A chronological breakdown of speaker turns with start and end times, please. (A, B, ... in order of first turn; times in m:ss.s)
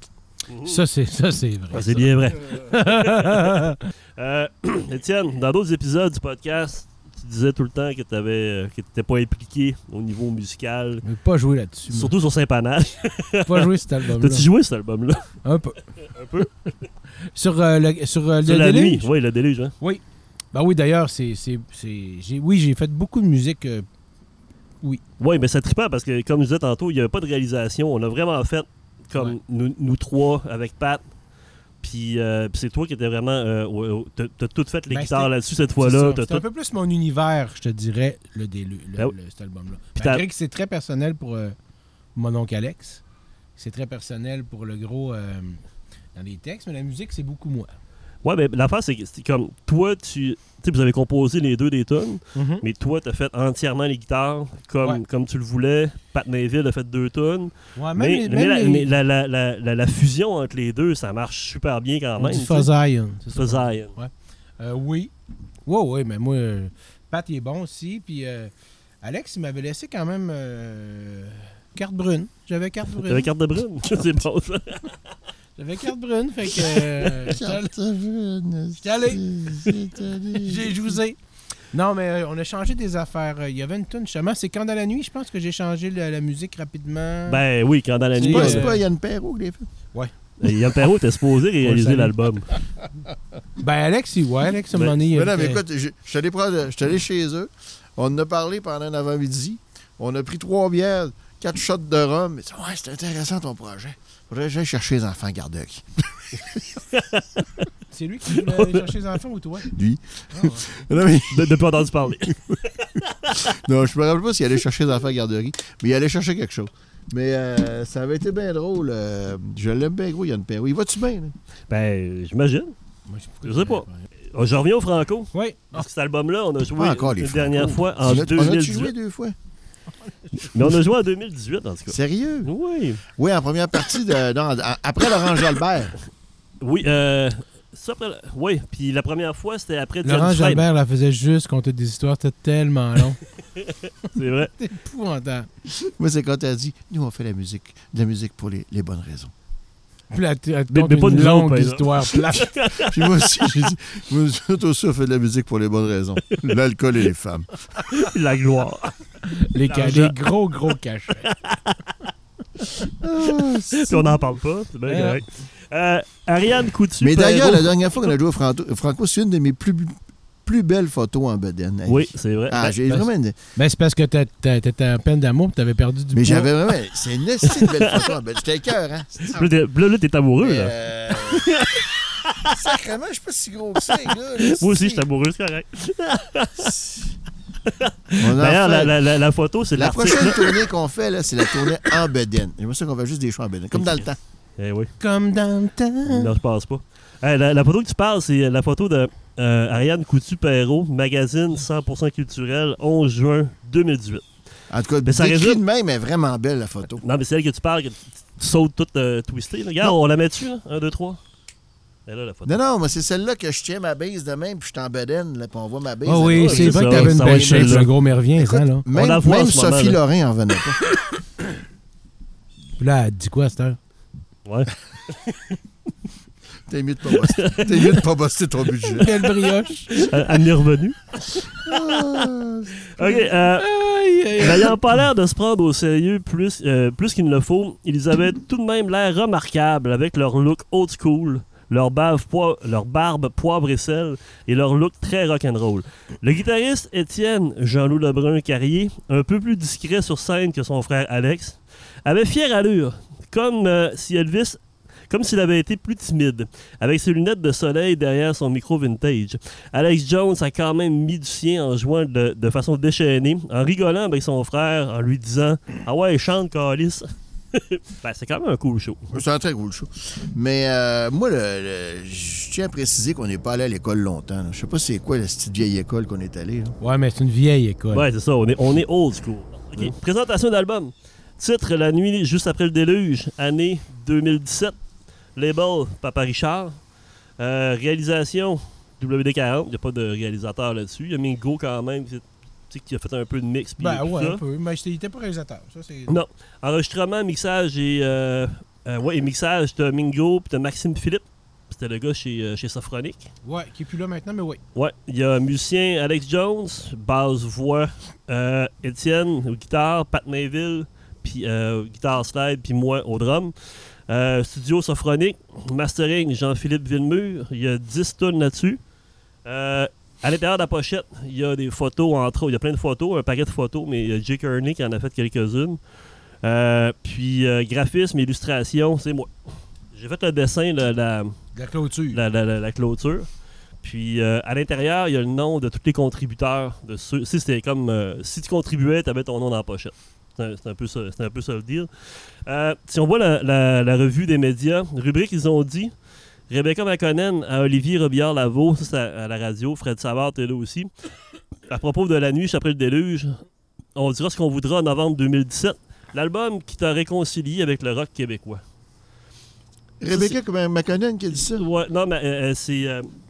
0:00.5-0:00.8 A
0:00.6-0:03.8 B
0:01.7-0:11.0 A
0:11.0-0:12.1 B
0:11.9-0:15.3 A
0:13.4-0:14.5 B
0:15.4-0:15.9 B
0:16.1-0:16.5 A
0:17.3-0:19.1 B
0:18.4-0:19.7 A
0:20.5-0:23.8 B
0:25.2-0:31.0 A
0:31.8-0:36.4 A
0:34.9-0:41.5 B
0:40.0-0:40.2 A
0:42.2-0:43.0 B
0:43.6-0:45.6 B
0:46.1-0:47.7 B
0:48.2-1:02.7 A
0:52.3-0:52.6 B
0:57.8-0:58.9 B
1:02.2-1:05.1 B
1:03.3-1:03.9 A
1:05.6-1:08.5 B
1:09.0-1:13.3 B
1:13.0-1:14.9 A
1:15.6-1:17.7 B
1:17.2-1:20.9 C
1:18.8-1:19.7 B
1:20.3-1:21.2 B
1:21.7-1:27.4 B
1:27.3-1:28.7 A
1:28.1-1:28.8 B
1:28.3-1:29.7 C
1:30.4-1:32.5 A
1:31.6-1:32.1 B
1:33.6-1:35.6 B
1:35.1-1:46.6 C
1:46.9-1:47.3 A
1:47.9-1:49.7 B
1:48.4-1:48.9 A
1:49.7-1:51.6 C
1:50.3-1:50.7 B
1:51.3-1:53.4 A
1:52.2-1:52.6 C
1:53.3-2:01.3 C
2:01.7-2:02.7 A
2:03.1-2:04.0 B
2:03.4-2:08.9 A
2:05.3-2:05.8 B
2:06.8-2:09.3 C
2:10.4-2:13.0 A
2:11.9-2:12.5 C
2:13.0-2:16.0 C
2:16.6-2:20.6 A
2:20.0-2:23.2 B
2:23.6-2:24.5 A
2:24.6-2:25.5 B
2:25.7-2:29.3 C
2:30.1-2:32.5 B
2:30.7-2:33.2 A
2:32.7-2:37.5 C
2:37.8-2:39.1 A
2:39.3-2:41.3 B
2:39.6-2:40.1 A
2:41.2-2:42.0 A
2:43.0-2:44.2 C
2:43.3-2:47.7 A
2:44.9-2:45.2 B
2:47.0-2:53.4 C
2:51.9-2:52.7 A
2:52.9-2:56.5 B
2:56.1-2:59.5 C
2:57.4-2:58.1 A
2:59.3-3:02.6 A
3:00.4-3:01.5 C
3:02.4-3:05.0 C
3:04.4-3:06.7 A
3:06.6-3:07.1 C
3:07.6-3:10.6 A
3:08.2-3:08.9 C
3:09.7-3:14.2 C
3:13.7-3:14.9 A
3:15.0-3:16.3 B
3:16.0-3:24.3 A
3:24.7-3:27.0 C
3:25.0-3:25.6 A
3:27.0-3:31.2 A
3:32.0-3:32.6 A
3:32.4-3:40.8 C
3:36.0-3:38.8 B
3:36.4-3:37.9 A
3:38.9-3:40.0 A
3:42.8-3:43.8 B
3:44.4-3:45.4 A
3:46.7-3:49.1 C
3:47.1-3:48.0 A
3:48.9-3:50.4 B
3:49.9-3:51.9 A
3:51.6-3:52.9 C
3:52.9-3:53.7 A
3:53.0-3:54.8 B
3:54.4-4:29.2 A
4:29.1-4:36.7 C
4:36.8-4:38.0 B
4:37.9-4:44.8 A
4:45.4-4:46.8 A
4:47.4-4:54.4 A
4:53.8-4:56.2 B
4:56.1-5:03.3 A
5:03.4-5:04.6 B
5:04.7-5:13.5 A
5:14.1-5:18.8 A
5:19.4-5:25.8 A
5:26.4-5:29.3 A
5:29.9-5:31.4 A
5:31.5-5:32.2 B
5:32.1-5:33.3 A
5:33.8-5:41.9 A
5:42.4-5:45.9 A
5:46.5-5:50.9 A
5:51.7-5:53.4 A
5:53.9-5:58.6 A
6:00.0-6:01.6 C
6:00.1-6:00.4 A
6:01.5-6:03.1 A